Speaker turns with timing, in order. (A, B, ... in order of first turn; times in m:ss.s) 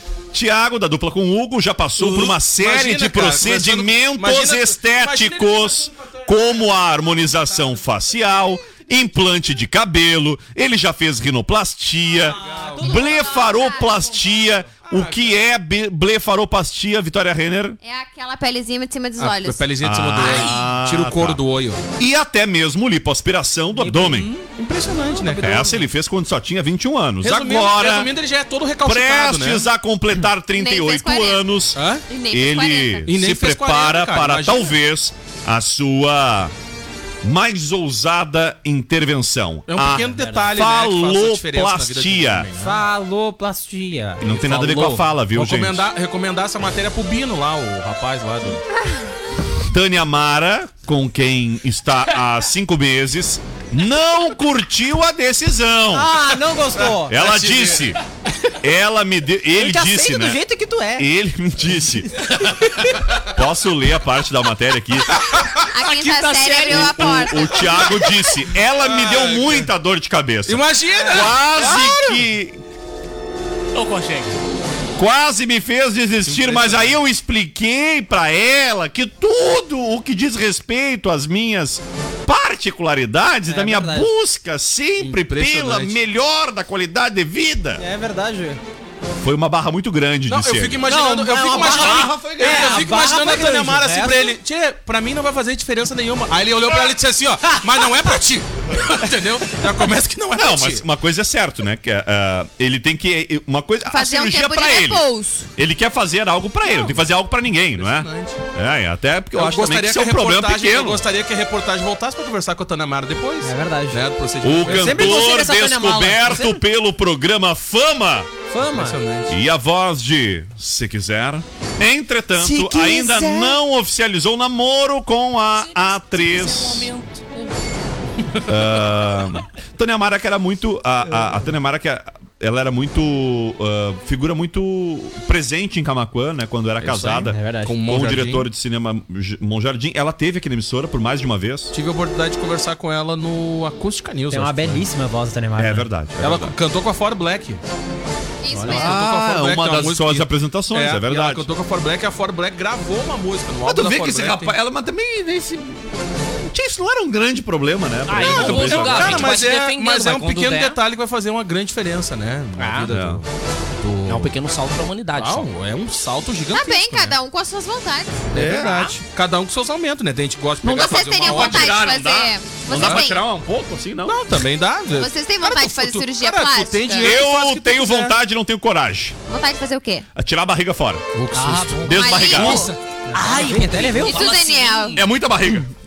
0:00.3-0:17.8 A
0:02.0-0:07.3 B
0:12.4-0:13.0 B
0:12.4-0:13.0 C
0:12.8-0:14.0 D
0:14.8-0:15.4 B
0:17.8-0:19.7 D
0:19.2-0:21.8 B
0:19.8-0:21.4 A
0:20.2-0:20.6 E
0:22.0-0:24.3 A
0:23.8-0:24.3 C
0:24.4-0:25.8 B
0:25.1-0:25.8 C
0:25.4-0:28.1 A
0:27.2-0:29.7 B
0:28.8-0:31.8 A
0:30.6-0:31.4 D
0:31.8-0:32.0 B
0:32.1-0:33.1 D
0:32.3-0:36.5 A
0:33.1-0:34.7 B
0:37.2-0:42.5 A
0:39.7-0:42.8 B
0:42.6-0:44.3 C
0:44.2-0:45.9 A
0:44.4-0:45.0 E
0:45.3-0:48.6 B
0:49.7-0:56.2 A
0:55.9-0:57.1 C
0:56.8-0:58.0 B
0:57.1-0:58.0 A
0:58.6-1:00.4 A
0:59.6-1:01.1 C
1:01.0-1:02.2 A
1:03.2-1:05.2 A
1:05.2-1:05.7 B
1:05.7-1:07.7 D
1:06.4-1:12.6 A
1:07.7-1:08.1 B
1:08.8-1:09.7 B
1:10.5-1:12.2 B
1:13.8-1:14.4 E
1:15.0-1:27.8 A
1:16.3-1:17.0 B
1:23.5-1:24.1 C
1:25.0-1:26.0 B
1:27.8-1:28.6 C
1:29.2-1:30.9 A
1:30.3-1:40.9 B
1:30.9-1:34.4 C
1:31.4-1:32.9 A
1:40.4-1:45.0 A
1:43.9-1:45.5 D
1:45.6-1:51.0 A
1:47.8-1:48.4 B
1:49.4-1:55.2 B
1:53.4-1:54.0 C
1:54.4-1:58.3 A
1:54.6-1:56.6 C
1:58.5-1:59.0 C
1:58.6-1:59.3 B
1:59.3-2:06.9 A
2:02.4-2:03.6 C
2:05.6-2:07.3 E
2:08.5-2:21.7 A
2:16.8-2:18.4 B
2:17.2-2:17.7 C
2:21.7-2:24.8 B
2:24.3-2:25.9 C
2:25.6-2:26.5 A
2:26.2-2:27.6 B
2:28.4-2:29.0 D
2:28.5-2:34.6 B
2:28.6-2:31.5 A
2:33.6-2:39.4 A
2:38.1-2:40.8 E
2:38.2-2:43.3 B
2:42.6-2:42.9 E
2:42.9-2:43.2 A
2:43.8-2:44.3 B
2:44.1-2:45.5 E
2:45.1-2:47.2 B
2:46.5-2:48.3 D
2:48.3-2:51.8 B
2:48.3-2:48.8 A
2:48.6-2:48.9 E
2:50.6-2:53.2 D
2:50.6-2:54.2 A
2:52.7-2:53.0 B
2:54.0-2:58.2 B
2:54.9-2:57.1 D
2:57.0-2:59.2 A
2:59.3-3:00.1 D
3:00.2-3:01.0 A
3:01.1-3:01.9 B
3:01.3-3:05.0 E
3:01.8-3:02.7 A
3:01.9-3:02.7 D
3:03.1-3:04.3 C
3:04.0-3:05.0 D
3:04.9-3:05.6 A